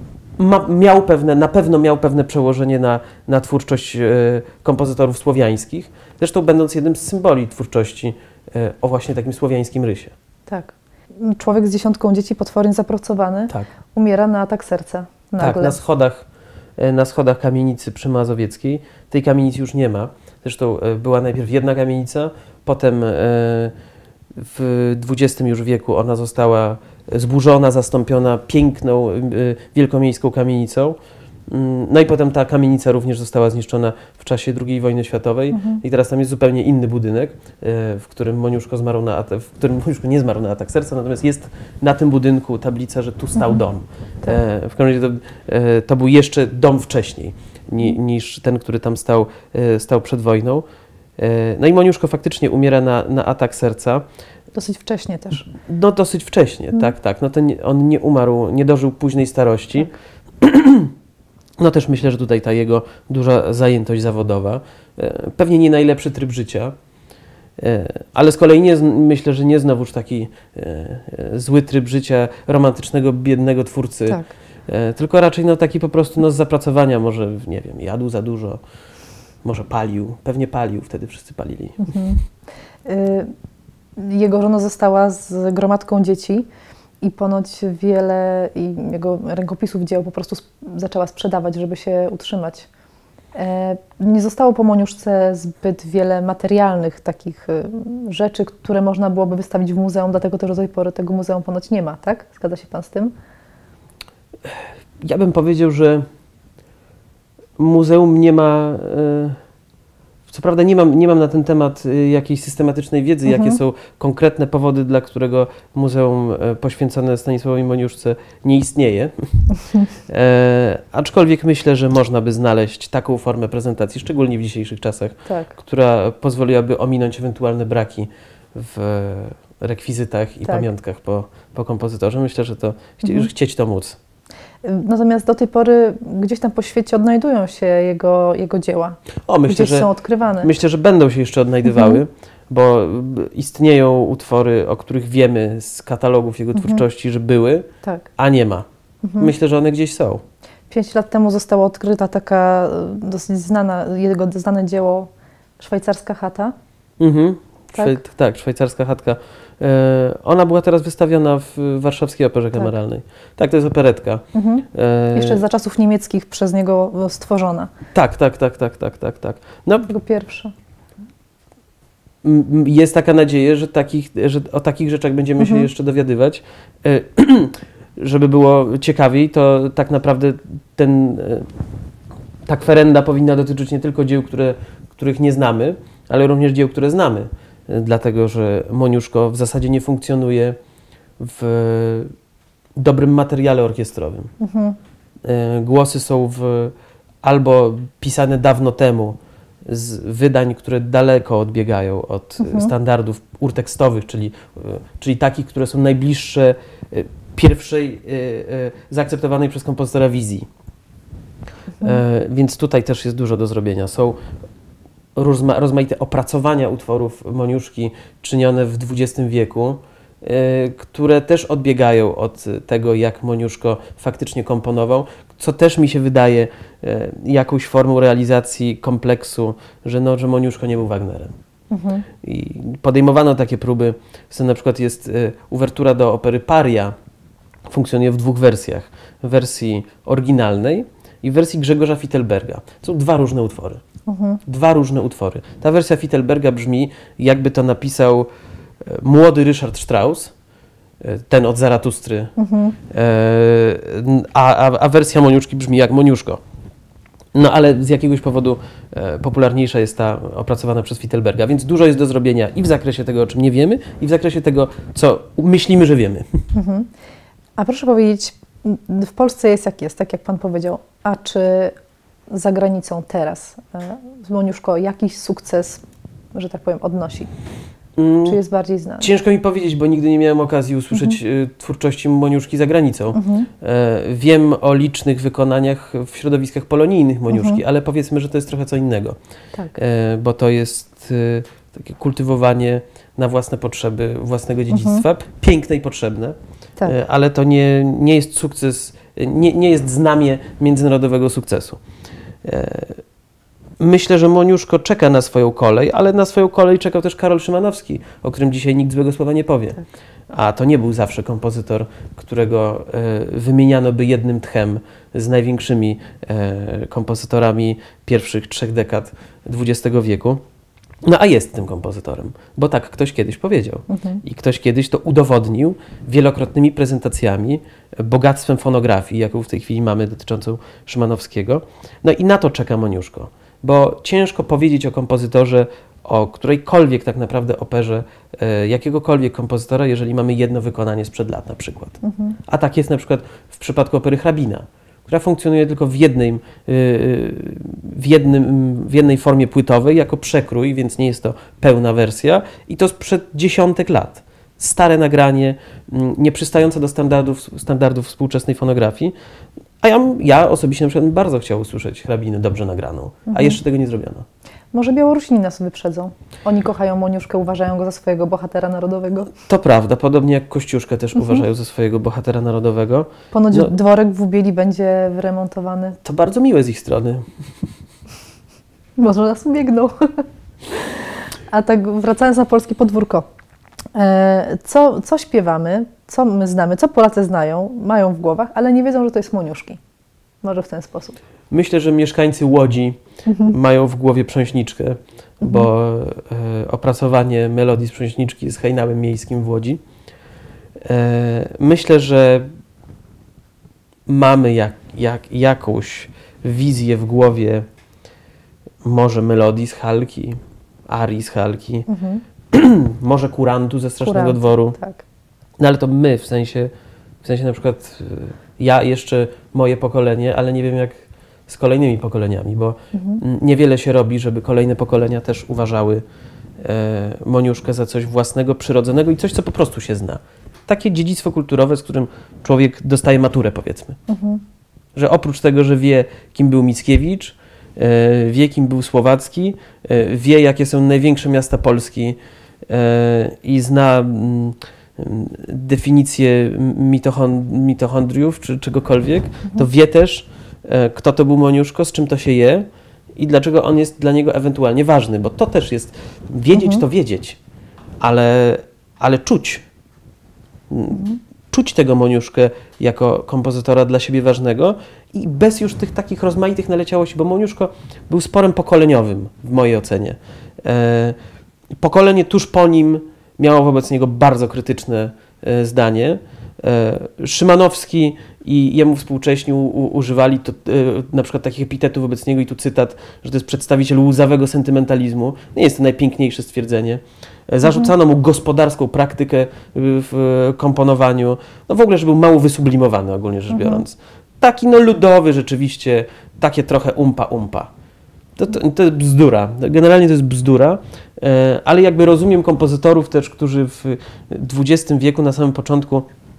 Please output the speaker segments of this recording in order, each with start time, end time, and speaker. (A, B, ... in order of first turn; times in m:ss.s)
0:00.4-0:10.1 A
0:10.5-0:15.8 B
0:15.4-0:23.7 A
0:24.3-0:31.0 A
0:31.5-0:50.6 A
0:35.5-0:35.8 B
0:51.2-0:54.0 A
0:54.5-0:55.5 B
0:55.5-1:00.9 A
1:01.6-1:06.7 A
1:07.6-1:18.6 A
1:19.4-1:22.0 A
1:21.8-1:22.2 B
1:22.8-1:23.3 B
1:24.0-1:26.5 B
1:27.0-1:32.7 B
1:33.3-1:43.1 B
1:44.4-1:46.0 A
1:47.6-1:49.4 A
1:50.3-1:59.5 A
1:53.2-1:53.6 B
2:00.1-2:14.0 A
2:05.3-2:05.5 B
2:13.0-2:13.3 B
2:14.6-2:20.5 B
2:19.3-2:19.9 A
2:20.4-2:28.7 A
2:21.6-2:22.0 B
2:26.5-2:26.8 B
2:29.0-2:29.3 B
2:29.2-2:30.2 A
2:30.7-2:36.5 B
2:37.0-2:45.4 A
2:44.3-2:47.7 B
2:47.9-2:49.9 A
2:49.9-2:50.5 B
2:52.2-3:01.5 A
2:55.4-2:55.7 B
3:02.4-3:10.6 A
3:11.2-3:12.1 A
3:12.8-3:14.3 A
3:14.4-3:14.8 B
3:15.2-3:30.5 A
3:22.4-3:22.7 B
3:31.8-3:34.2 A
3:35.2-3:51.3 A
3:51.7-3:52.0 B
3:52.2-3:56.9 A
3:57.7-4:03.8 A
4:04.1-4:04.4 B
4:04.4-4:08.3 A
4:08.8-4:10.3 A
4:11.0-4:12.3 A
4:12.4-4:12.8 B
4:12.9-4:16.4 A
4:17.3-4:26.2 A
4:26.5-4:26.9 B
4:27.6-4:31.7 B
4:32.3-4:35.8 B
4:36.3-4:37.3 B
4:38.0-4:38.4 A
4:38.2-4:39.1 B
4:39.0-4:49.2 A
4:40.9-4:41.2 B
4:43.1-4:43.5 B
4:47.3-4:47.6 B
4:49.7-5:01.8 A
4:54.7-4:55.0 B
5:02.4-5:03.0 A
5:03.8-5:20.4 A
5:21.0-5:59.1 A
5:23.9-5:24.2 B
5:42.0-5:42.4 B
5:59.8-6:04.2 A
6:03.3-6:03.6 B
6:04.7-6:09.3 B
6:09.4-6:13.7 A
6:13.3-6:16.0 B
6:16.0-6:17.2 A
6:19.0-6:20.2 B
6:21.5-6:23.2 B
6:23.9-6:29.8 B
6:30.4-6:31.2 B
6:31.5-6:39.8 A
6:33.2-6:33.6 B
6:35.4-6:35.7 B
6:40.8-6:42.5 A
6:44.1-6:47.6 A
6:48.8-6:51.9 A
6:51.9-6:52.2 B
6:52.5-6:54.8 A
6:54.0-6:55.0 B
6:55.6-6:56.7 A
6:57.2-7:06.0 A
7:02.9-7:03.2 B
7:06.6-7:14.0 A
7:14.1-7:14.4 B
7:14.9-7:37.4 A
7:36.6-7:36.8 B
7:38.0-7:39.6 A
7:40.7-7:51.2 A
7:40.9-7:41.2 B
7:51.8-8:17.7 A
8:13.5-8:13.8 B
8:18.4-8:26.1 A